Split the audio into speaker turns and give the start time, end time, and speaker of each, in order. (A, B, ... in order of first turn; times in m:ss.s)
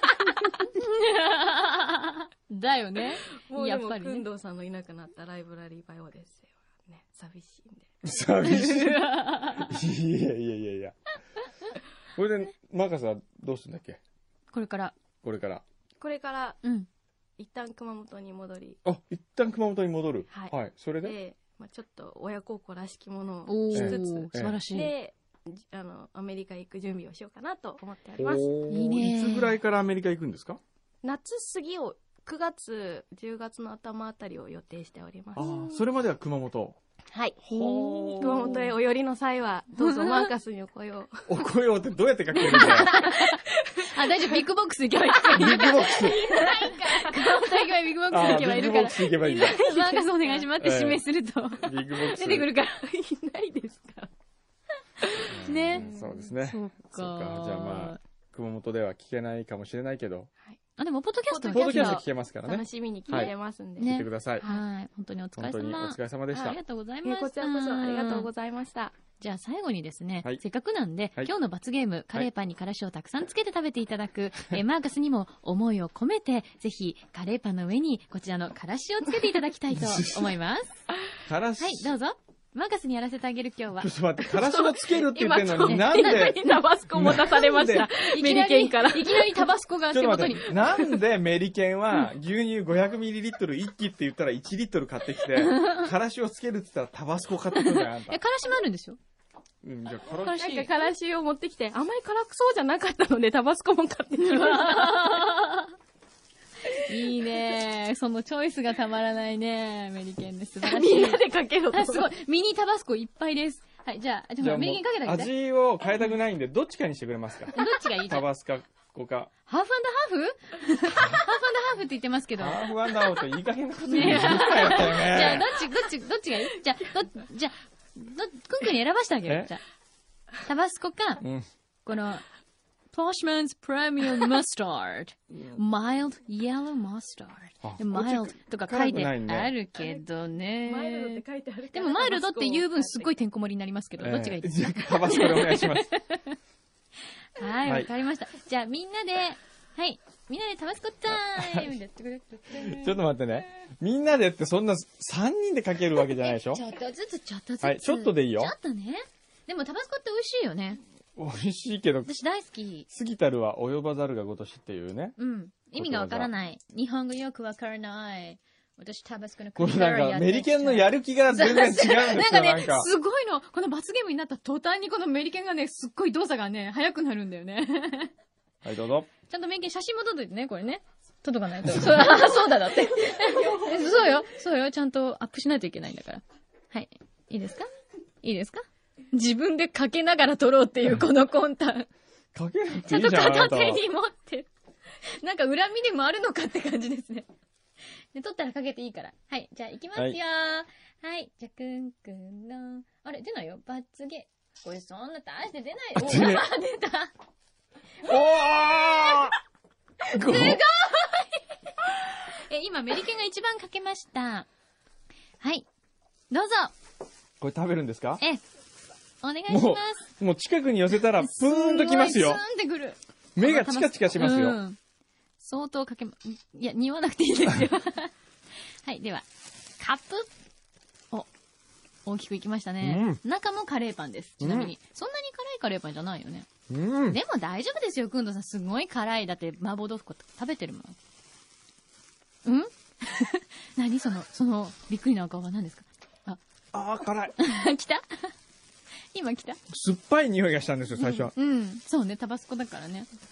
0:00.6-0:04.2 A
0:03.4-0:07.9 B
0:08.0-0:11.0 C
0:08.3-0:09.8 A
0:12.1-0:14.0 C
0:14.5-0:14.9 A
0:15.2-0:15.6 C
0:16.0-0:16.6 B
0:16.6-0:16.9 A
0:17.4-0:18.8 B
0:18.8-0:21.2 C
0:20.3-0:28.6 B
0:23.4-0:24.9 A
0:23.7-0:24.6 C
0:28.2-0:30.6 C
0:28.7-0:29.6 A
0:31.0-0:35.6 B
0:35.4-0:36.8 C
0:35.4-0:35.7 A
0:37.1-0:37.4 B
0:37.4-0:38.6 C
0:37.4-0:38.6 A
0:38.2-0:41.2 B
0:39.8-0:40.3 A
0:41.3-0:42.9 C
0:42.4-0:52.8 A
0:42.5-0:44.4 B
0:45.2-0:50.5 B
0:45.3-0:46.2 C
0:48.1-0:49.6 C
0:50.6-0:52.5 C
0:52.8-0:54.1 B
0:55.2-0:58.0 A
0:55.2-0:56.3 B
0:55.3-1:00.3 C
1:00.8-1:02.0 A
1:01.3-1:04.6 B
1:01.5-1:03.3 C
1:03.1-1:08.3 A
1:03.8-1:04.5 C
1:05.4-1:06.6 C
1:06.3-1:08.9 B
1:09.2-1:20.7 A
1:19.7-1:20.3 C
1:21.2-1:21.9 C
1:21.6-1:23.9 A
1:23.8-1:27.9 C
1:24.2-1:29.5 B
1:25.6-1:26.3 A
1:27.0-1:30.5 A
1:29.9-1:38.2 C
1:30.5-1:31.0 B
1:35.4-1:35.9 A
1:37.5-1:39.0 A
1:39.6-1:40.4 C
1:40.0-1:40.8 A
1:40.3-1:45.3 B
1:44.2-1:45.7 A
1:46.8-1:55.3 A
1:50.6-1:52.1 B
1:54.4-1:59.3 C
1:57.5-1:58.2 A
1:59.5-2:02.7 A
2:02.4-2:05.6 C
2:03.9-2:09.6 A
2:09.3-2:09.5 C
2:10.4-2:11.2 A
2:11.2-2:11.4 C
2:11.8-2:12.2 A
2:12.9-2:26.4 A
2:17.6-2:19.5 C
2:19.7-2:20.0 B
2:20.6-2:23.1 B
2:24.0-2:25.9 C
2:27.4-2:33.0 A
2:27.6-2:27.9 C
2:31.1-2:31.7 C
2:32.5-2:36.6 C
2:36.2-2:40.8 A
2:37.6-2:38.5 C
2:41.2-2:42.1 C
2:42.0-2:42.9 A
2:42.9-2:45.2 C
2:45.2-2:58.1 A
2:45.7-2:46.3 C
2:49.6-2:52.9 C
2:58.6-2:59.1 C
2:59.3-3:07.7 A
3:02.8-3:04.2 B
3:08.2-3:11.9 A
3:12.3-3:13.8 C
3:12.8-3:14.5 A
3:15.1-3:17.3 A
3:18.1-3:27.1 A
3:26.0-3:26.5 C
3:28.0-3:29.3 C
3:28.0-3:29.3 A
3:30.1-3:34.5 A
3:30.1-3:30.6 C
3:35.4-3:35.7 A
3:36.3-3:36.7 A
3:37.4-3:38.2 C
3:39.2-3:40.1 A
3:39.5-3:42.4 C
3:41.2-3:44.8 A
3:43.4-3:44.6 C
3:45.4-3:48.1 A
3:48.8-3:49.2 A
3:49.8-3:50.3 A
3:52.0-3:56.5 A
3:52.8-3:53.2 C
3:54.4-3:54.7 C
3:56.7-3:57.2 C
3:57.1-4:00.9 A
4:02.4-4:06.4 A
4:06.7-4:07.3 C
4:07.4-4:08.3 A
4:09.1-4:09.6 A
4:09.7-4:11.3 C
4:11.0-4:13.1 A